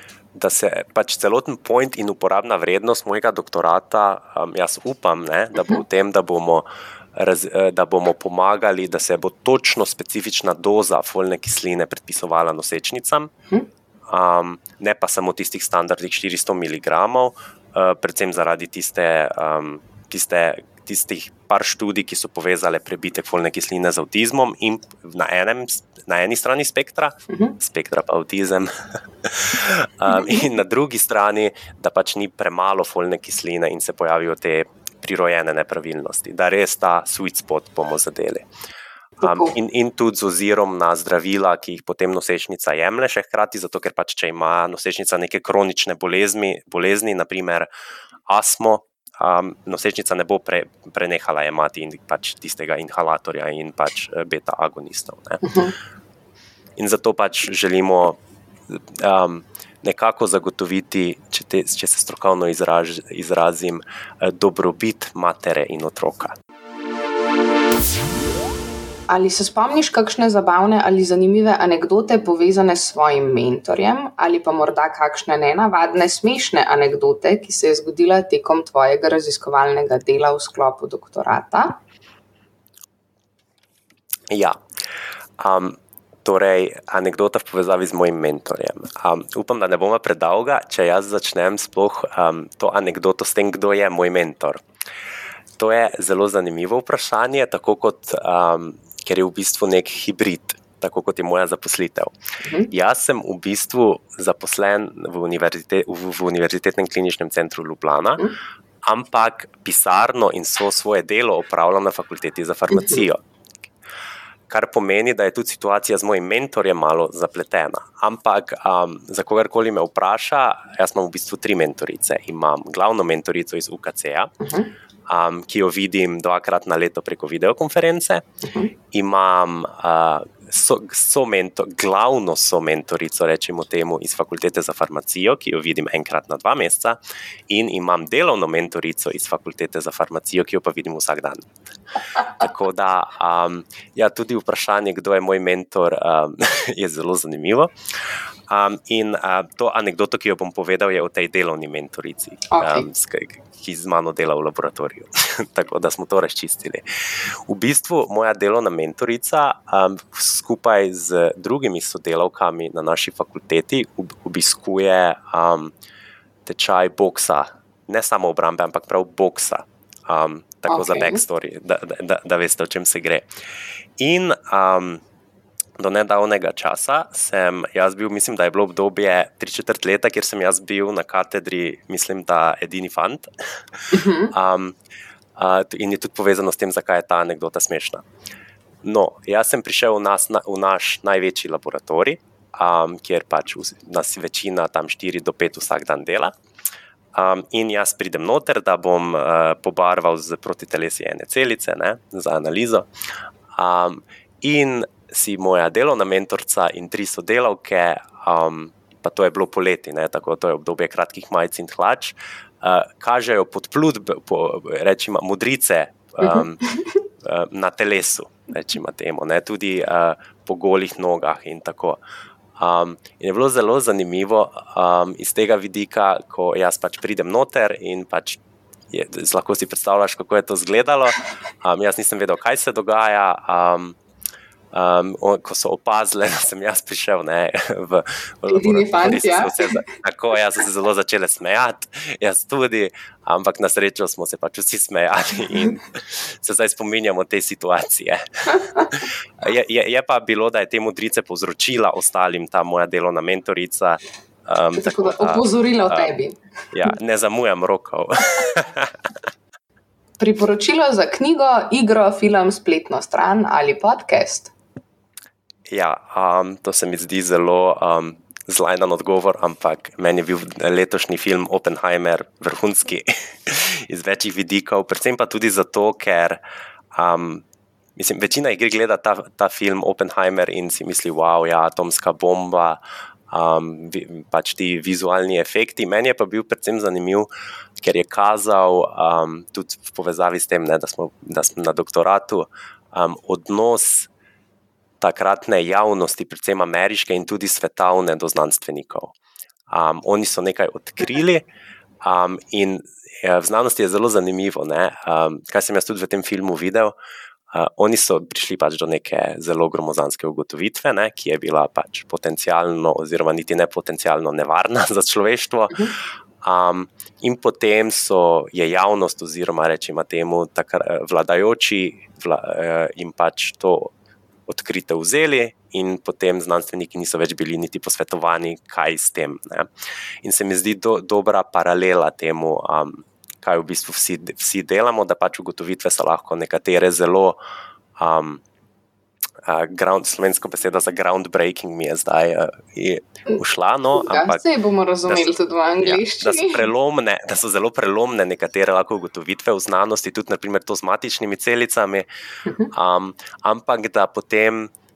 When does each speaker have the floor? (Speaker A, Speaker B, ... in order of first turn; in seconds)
Speaker A: 0.3-13.3, 14.1-38.5, 39.2-47.7, 48.3-55.5, 56.8-66.3, 84.3-84.6, 85.4-94.6, 95.6-102.1, 102.7-108.2, 108.9-113.2, 114.5-124.3, 125.1-128.2, 128.9-137.0, 137.5-141.6, 142.3-147.7, 148.5-165.7, 166.4-173.2, 174.0-175.0, 175.8-183.3, 184.3-184.8, 185.3-188.0, 188.8-196.3, 197.1-202.9, 203.6-216.6, 217.2-222.0, 222.6-228.4, 228.9-234.0, 234.7-256.1, 256.7-258.9, 265.7-276.4, 276.9-277.4, 277.9-282.8, 283.3-287.3, 287.8-294.1, 295.0-299.1, 299.7-301.4, 302.0-306.9, 307.5-315.9, 316.4-323.9, 324.5-329.7, 330.2-337.4, 338.0-338.4, 339.4-344.4, 345.8-352.0, 352.7-354.7
Speaker B: 5.5-5.8, 27.3-27.6, 30.1-30.4, 39.2-39.5, 55.4-55.7, 69.1-81.8, 102.4-102.7, 112.7-113.0, 124.4-124.7, 128.4-128.7, 152.5-152.9, 170.7-171.2, 183.9-184.3, 216.2-217.0, 238.5-239.8, 254.8-256.9, 260.2-264.5, 343.9-346.6, 352.4-352.7